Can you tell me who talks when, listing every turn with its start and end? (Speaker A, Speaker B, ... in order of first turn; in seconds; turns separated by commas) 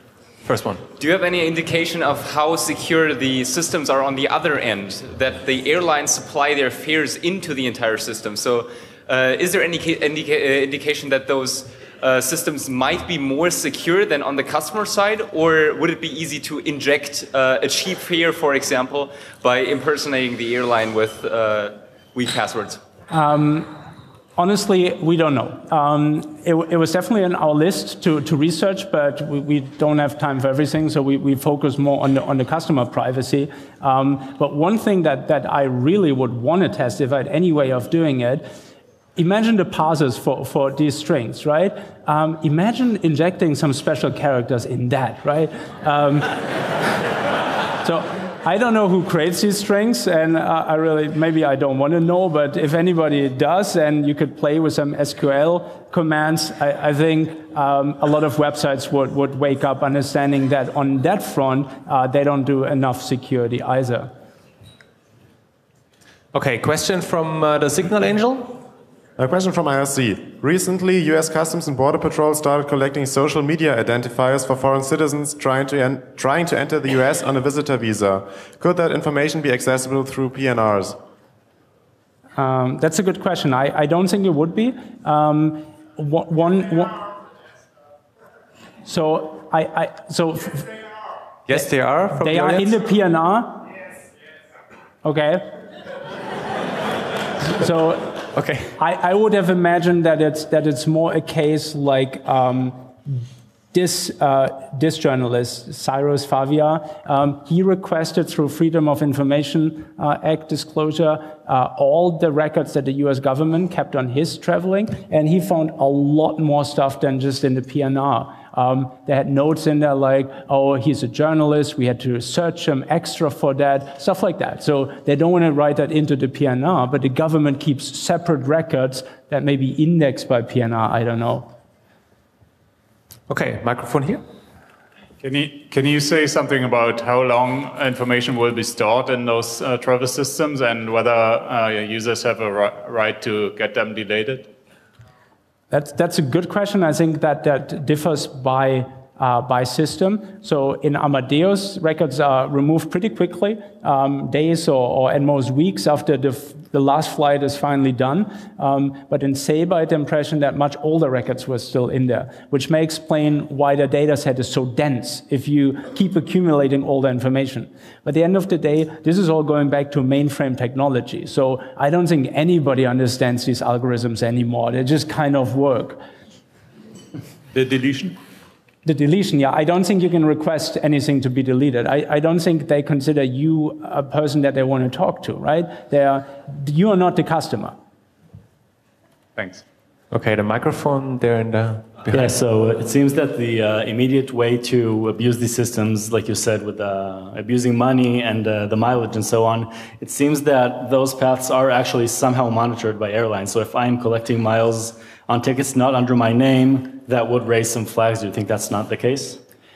Speaker A: 0.5-0.9, Speaker B: 1.0-22.8, Speaker C: 23.1-23.8, Speaker C: 24.4-38.5, Speaker C: 39.2-46.5, Speaker C: 47.8-64.1, Speaker A: 66.3-68.6, Speaker D: 69.2-81.0, Speaker C: 82.4-87.0, Speaker C: 88.9-90.8, Speaker A: 91.5-92.8, Speaker C: 91.5-93.7, Speaker C: 95.0-95.5, Speaker C: 97.4-131.5, Speaker A: 98.3-98.7, Speaker A: 133.3-134.2, Speaker E: 135.2-144.5, Speaker C: 145.7-176.0, Speaker A: 177.5-178.2, Speaker C: 178.8-187.8, Speaker E: 189.4-189.6, Speaker A: 190.1-192.3, Speaker F: 192.1-209.4